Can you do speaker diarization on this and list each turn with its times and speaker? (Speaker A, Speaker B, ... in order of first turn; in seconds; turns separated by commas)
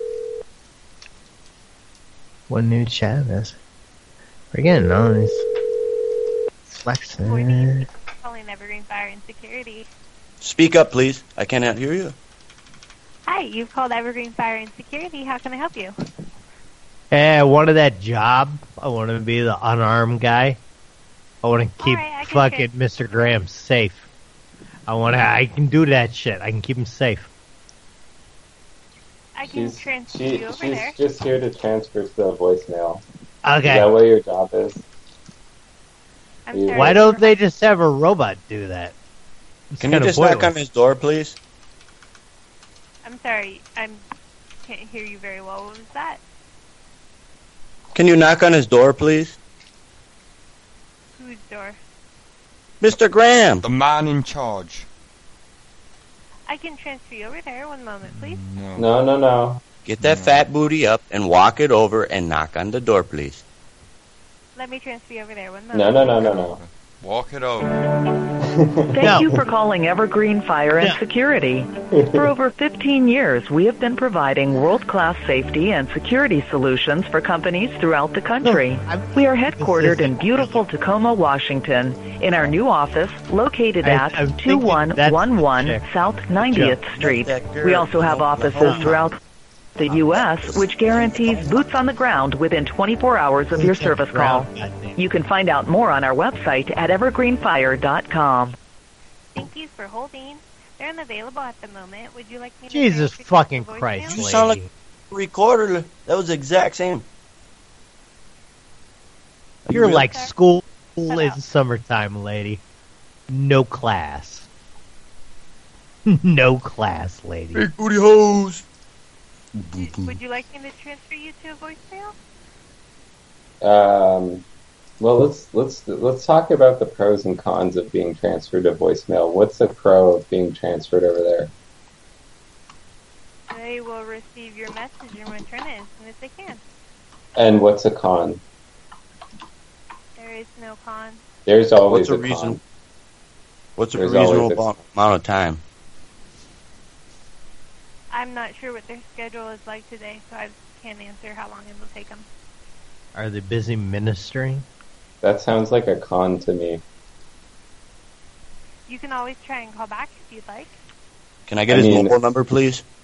Speaker A: 2.5-3.6, Speaker A: 4.5-5.5, Speaker A: 6.7-7.8, Speaker B: 7.2-9.9, Speaker C: 10.4-12.2, Speaker B: 13.3-15.9, Speaker A: 17.1-20.6, Speaker A: 21.4-24.1, Speaker B: 21.8-23.4, Speaker A: 24.9-27.3, Speaker B: 29.4-31.0, Speaker D: 29.4-33.0, Speaker A: 33.5-33.9, Speaker D: 33.6-34.8, Speaker B: 36.5-37.4, Speaker D: 36.5-37.1, Speaker A: 36.7-39.0, Speaker A: 39.7-40.5, Speaker C: 39.8-41.4, Speaker B: 43.0-44.0, Speaker B: 44.6-46.2, Speaker C: 47.9-49.4, Speaker B: 51.1-51.8, Speaker C: 52.8-53.7, Speaker E: 53.6-54.9, Speaker B: 56.5-58.4, Speaker E: 58.0-58.9, Speaker D: 58.8-59.6, Speaker C: 59.9-63.4, Speaker E: 60.0-60.5, Speaker B: 64.6-66.3, Speaker D: 65.7-66.6, Speaker E: 66.2-67.8, Speaker D: 68.4-69.4, Speaker F: 68.9-89.2, Speaker A: 69.0-69.3, Speaker D: 71.9-72.3, Speaker A: 78.4-80.7, Speaker A: 83.8-86.8, Speaker C: 86.6-89.1, Speaker A: 88.5-89.0, Speaker F: 89.8-98.5, Speaker A: 89.9-90.2, Speaker C: 90.1-91.7, Speaker A: 93.5-95.0, Speaker B: 99.3-104.3, Speaker A: 102.7-104.7, Speaker C: 104.1-104.6, Speaker C: 105.1-107.0, Speaker C: 109.7-110.1, Speaker A: 109.7-112.6, Speaker B: 109.9-110.3, Speaker B: 111.1-111.4, Speaker A: 113.3-114.5, Speaker A: 116.1-117.7, Speaker C: 117.5-118.6, Speaker C: 119.6-120.2, Speaker B: 119.8-122.2, Speaker D: 123.6-124.4, Speaker D: 125.0-131.5, Speaker B: 133.5-136.6, Speaker D: 137.4-138.4, Speaker B: 140.2-141.2, Speaker D: 141.5-142.6, Speaker C: 141.9-142.6, Speaker C: 143.8-145.6, Speaker D: 143.9-144.7, Speaker B: 148.1-152.3, Speaker A: 153.2-154.7, Speaker D: 155.2-156.8, Speaker B: 158.9-160.8, Speaker C: 161.5-162.8, Speaker D: 161.7-162.2